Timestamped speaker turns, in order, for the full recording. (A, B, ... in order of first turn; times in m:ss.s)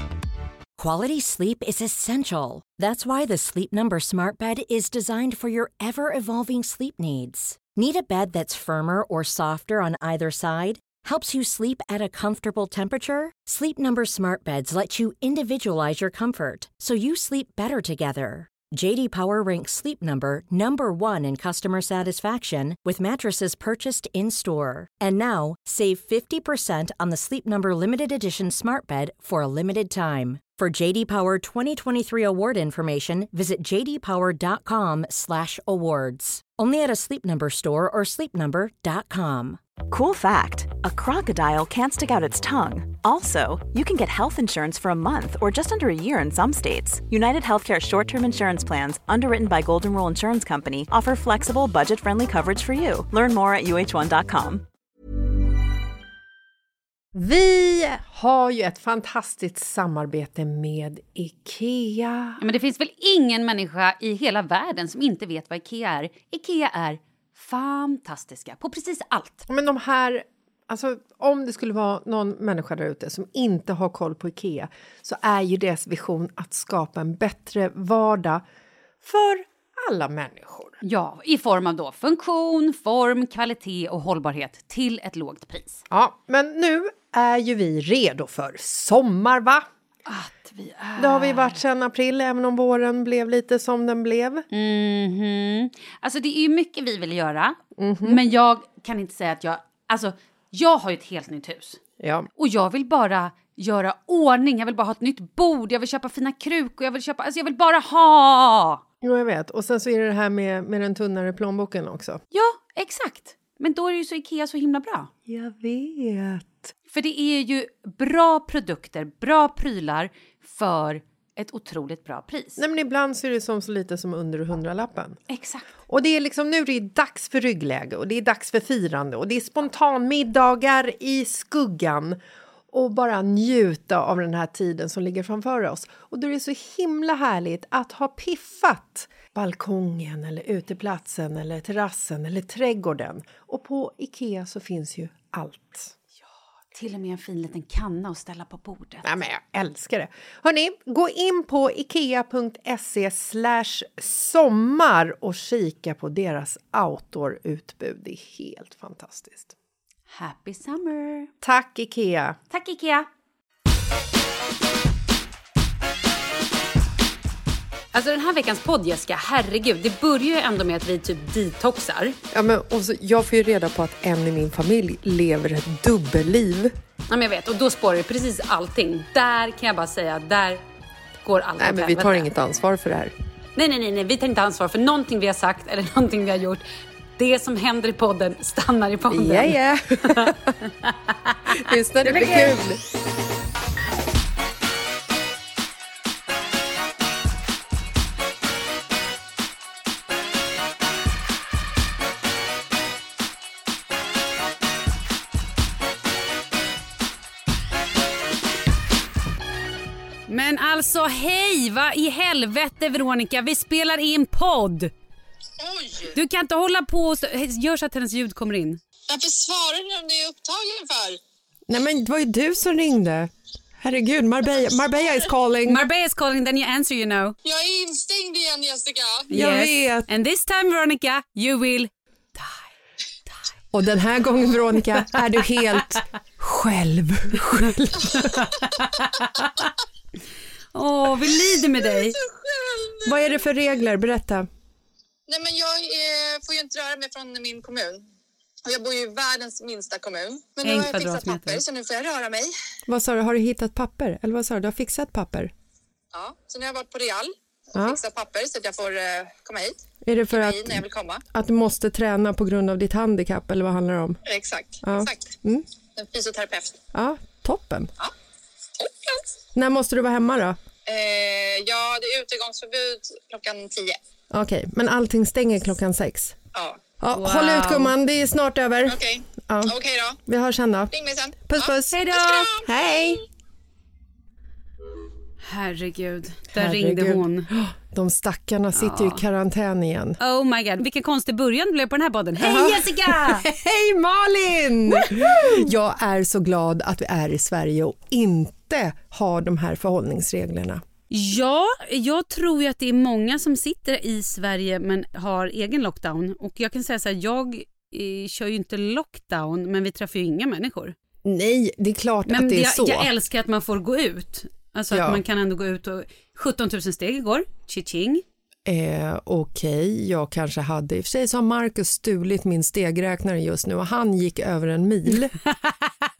0:00.8-0:39.6 A
0:39.9-0:54.6 B
0:57.1-1:02.4 C
1:02.4-1:09.4 D
1:09.5-1:18.4 C
1:19.0-1:20.8 C
1:20.8-1:25.8 D
1:25.9-1:29.7 C
1:30.1-1:31.6 D
1:31.0-1:34.4 C
1:34.5-1:41.8 D
1:37.8-1:38.2 C
1:42.0-1:42.3 C
1:42.4-1:48.8 D
1:49.0-1:52.2 C
1:52.3-1:55.1 D
1:55.2-1:56.7 C
1:56.9-2:02.6 D
2:02.6-2:05.2 C
2:05.3-2:05.7 D
2:05.9-2:12.2 C
2:12.7-2:26.0 C
2:26.7-2:29.0 D
2:29.0-2:39.5 C
2:40.1-2:41.3 D
2:41.4-2:42.4 C
2:42.5-2:43.1 D
2:47.9-2:52.2 D
2:52.3-2:56.7 C
2:57.1-3:00.6 D
3:01.2-3:02.3 D
3:01.6-3:03.1 C
3:03.6-3:06.6 D
3:07.2-3:12.6 D
3:09.1-3:10.5 C
3:11.5-3:12.8 C
3:30.3-3:34.9 D
3:35.6-3:36.1 E
3:36.1-3:38.8 D
3:39.1-3:41.2 E
3:41.7-3:45.8 C
3:45.6-3:47.4 D
3:47.4-3:49.2 E
3:49.3-3:52.6 D
3:49.3-3:50.1 C
3:53.7-3:58.4 C
3:58.0-3:59.7 D
4:00.7-4:02.2 D
4:02.3-4:03.3 E
4:03.0-4:04.5 C
4:05.3-4:08.0 E
4:08.7-4:12.5 E
4:10.6-4:11.6 D
4:12.9-4:15.5 C
4:16.1-4:19.8 E
4:17.7-4:18.0 C
4:20.0-4:24.2 C
4:20.3-4:21.2 E
4:24.2-4:25.3 E
4:24.8-4:25.6 C
4:26.0-4:26.8 E
4:26.9-4:27.9 C
4:28.8-4:29.1 E
4:29.5-4:30.6 C
4:30.8-4:34.0 E
4:34.3-4:36.4 C
4:36.5-4:36.8 E
4:37.0-4:39.7 C
4:37.1-4:37.9 D
4:38.9-4:40.2 E
4:40.2-4:42.0 C
4:40.9-4:42.6 E
4:41.9-4:42.6 D
4:42.6-4:43.2 C
4:45.4-4:47.5 D
4:46.5-4:50.2 C
4:48.7-4:49.2 D
4:50.2-4:53.4 D
4:52.4-5:00.8 C
4:54.9-4:55.7 D
5:01.1-5:11.0 D
5:11.2-5:13.1 C
5:12.2-5:18.2 D
5:14.9-5:15.2 C
5:18.6-5:25.4 C